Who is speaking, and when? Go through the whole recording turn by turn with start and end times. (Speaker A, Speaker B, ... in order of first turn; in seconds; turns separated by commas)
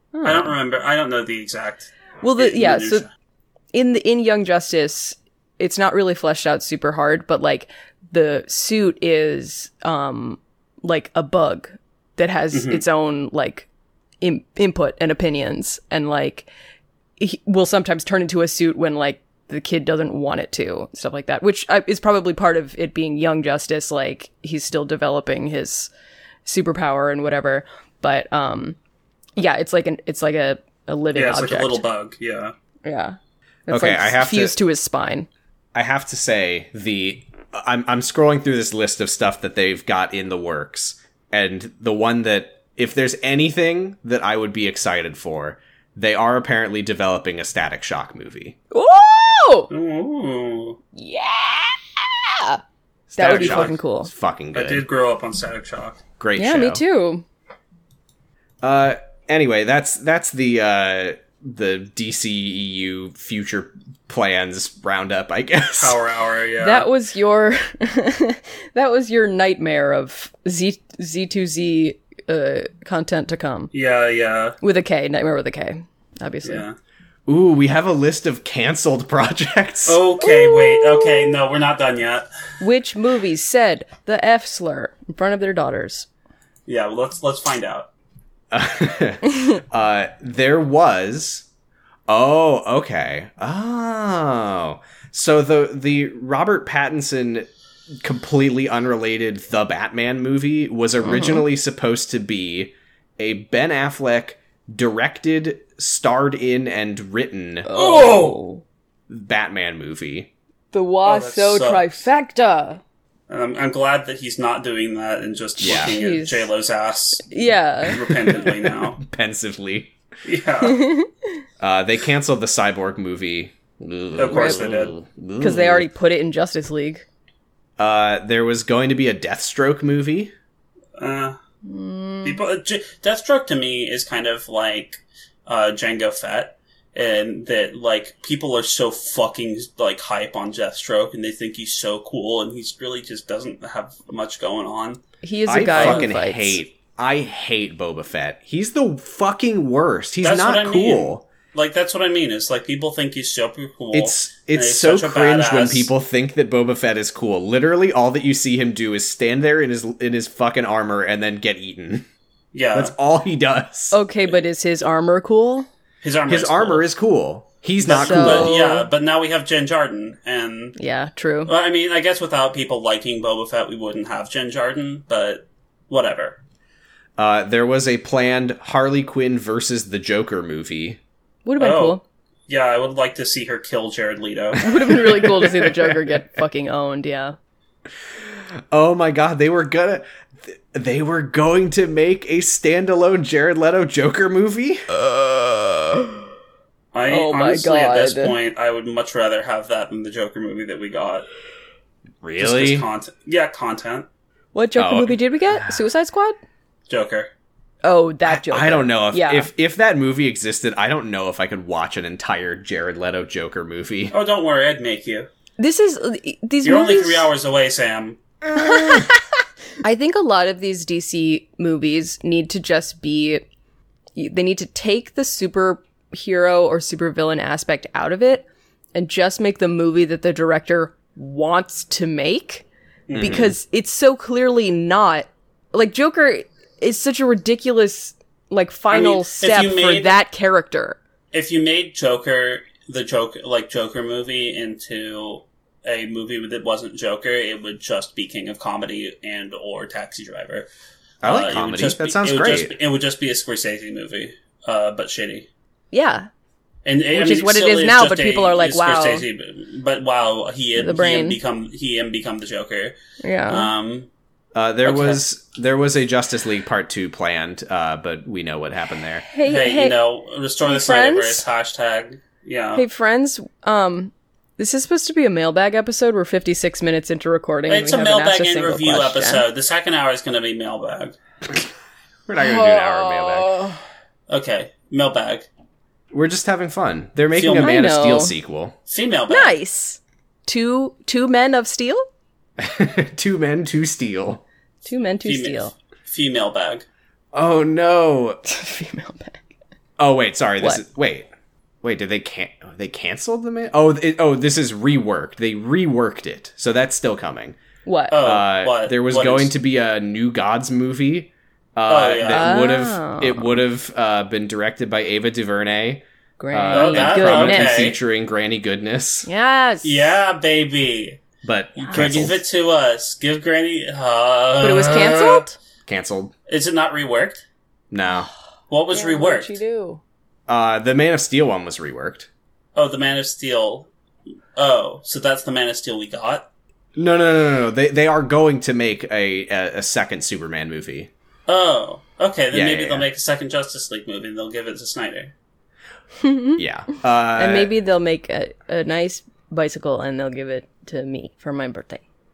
Speaker A: 0.1-0.5, Speaker B: 0.2-3.1, Speaker A: 2.2-3.0, Speaker A: 3.7-13.7, Speaker B: 12.5-12.8, Speaker A: 14.2-16.5, Speaker A: 17.2-25.9, Speaker A: 26.4-28.8, Speaker A: 29.4-31.8, Speaker B: 31.1-32.5, Speaker A: 32.8-35.3, Speaker C: 33.7-34.5, Speaker C: 35.7-48.5, Speaker A: 48.7-49.7, Speaker B: 49.7-50.8, Speaker A: 50.9-52.6, Speaker C: 53.1-54.9, Speaker A: 53.1-54.1, Speaker B: 53.2-53.8, Speaker B: 54.5-56.0, Speaker C: 56.2-56.8, Speaker A: 56.4-57.2, Speaker C: 58.6-66.0, Speaker B: 65.8-66.9, Speaker A: 66.6-73.7, Speaker B: 73.7-74.5, Speaker A: 74.6-76.6, Speaker B: 76.4-76.8, Speaker C: 77.3-80.0, Speaker B: 79.8-82.3, Speaker A: 80.2-81.4, Speaker A: 82.6-86.1, Speaker B: 86.7-87.9, Speaker C: 88.5-91.4, Speaker C: 92.1-97.5, Speaker C: 98.0-107.7, Speaker A: 101.0-101.4, Speaker A: 107.7-108.6, Speaker B: 107.7-108.4, Speaker C: 109.1-110.3, Speaker A: 110.7-112.8, Speaker B: 111.0-112.0, Speaker B: 113.3-119.0, Speaker C: 115.6-115.9, Speaker A: 115.6-116.5, Speaker A: 117.3-118.0, Speaker C: 118.0-119.9, Speaker B: 120.2-120.8, Speaker A: 120.6-121.1, Speaker C: 121.6-125.9, Speaker B: 124.1-125.0, Speaker A: 124.3-124.6, Speaker A: 125.4-127.0, Speaker C: 127.8-130.3, Speaker B: 131.0-131.4, Speaker A: 131.6-132.4, Speaker B: 132.2-145.0, Speaker A: 145.2-146.6, Speaker C: 145.5-151.2, Speaker B: 145.7-146.1, Speaker B: 150.2-155.9, Speaker C: 153.9-162.1, Speaker B: 162.5-162.9, Speaker C: 162.7-164.0, Speaker A: 163.9-165.7, Speaker B: 166.0-166.9, Speaker C: 166.3-168.6, Speaker B: 167.8-170.7, Speaker A: 168.0-168.9, Speaker A: 170.8-171.5, Speaker B: 171.4-176.4, Speaker C: 177.2-181.0, Speaker A: 181.4-182.0, Speaker B: 181.6-184.6, Speaker A: 184.6-187.3, Speaker C: 184.9-185.9, Speaker C: 188.7-194.8, Speaker B: 196.9-201.3, Speaker A: 197.1-198.3, Speaker C: 202.2-202.9, Speaker B: 202.4-204.1, Speaker A: 204.5-206.4, Speaker C: 204.8-205.8, Speaker B: 206.9-207.3, Speaker A: 207.8-209.5, Speaker C: 208.2-214.2, Speaker B: 214.1-215.3, Speaker A: 215.6-217.3, Speaker B: 216.6-218.2, Speaker A: 218.6-219.1, Speaker A: 219.8-223.4, Speaker A: 224.2-232.6, Speaker B: 233.1-233.4, Speaker C: 233.1-233.6, Speaker A: 233.2-241.0, Speaker B: 238.9-240.2, Speaker B: 241.3-250.7, Speaker C: 251.2-252.7, Speaker B: 251.2-255.5, Speaker A: 255.9-256.3, Speaker B: 256.8-262.9, Speaker A: 257.1-259.2, Speaker A: 260.8-261.4, Speaker A: 263.2-263.7, Speaker B: 263.5-264.1, Speaker C: 264.5-269.2, Speaker B: 264.8-265.2, Speaker A: 269.3-270.0, Speaker B: 269.4-272.8, Speaker A: 270.6-271.4, Speaker A: 272.7-279.4, Speaker B: 277.7-281.1, Speaker C: 282.3-283.6, Speaker A: 282.4-283.8, Speaker B: 284.3-285.5, Speaker C: 286.1-288.7, Speaker B: 287.3-287.8, Speaker A: 287.6-288.3, Speaker B: 288.9-289.6, Speaker A: 289.3-292.0, Speaker C: 292.6-294.4, Speaker A: 294.8-295.7, Speaker B: 295.2-296.9, Speaker C: 297.3-298.4, Speaker A: 298.4-299.4, Speaker C: 300.0-301.3, Speaker C: 301.8-307.6, Speaker A: 307.8-308.1, Speaker B: 308.1-309.5, Speaker C: 308.1-319.3, Speaker B: 311.9-312.5, Speaker A: 312.3-313.6, Speaker A: 316.4-317.9, Speaker B: 316.7-318.0, Speaker A: 319.2-320.1, Speaker B: 319.8-321.2, Speaker C: 321.4-322.4, Speaker A: 321.8-322.1, Speaker B: 321.8-325.4, Speaker A: 324.6-325.6, Speaker C: 325.9-326.3, Speaker B: 326.5-327.4, Speaker C: 327.9-328.3, Speaker B: 328.7-329.6, Speaker A: 328.9-330.0, Speaker C: 330.5-332.3, Speaker B: 332.7-333.9, Speaker B: 334.6-336.5, Speaker C: 336.9-341.1, Speaker B: 341.5-345.3, Speaker C: 342.5-343.1, Speaker A: 346.2-346.6, Speaker C: 346.6-347.7, Speaker A: 347.4-352.0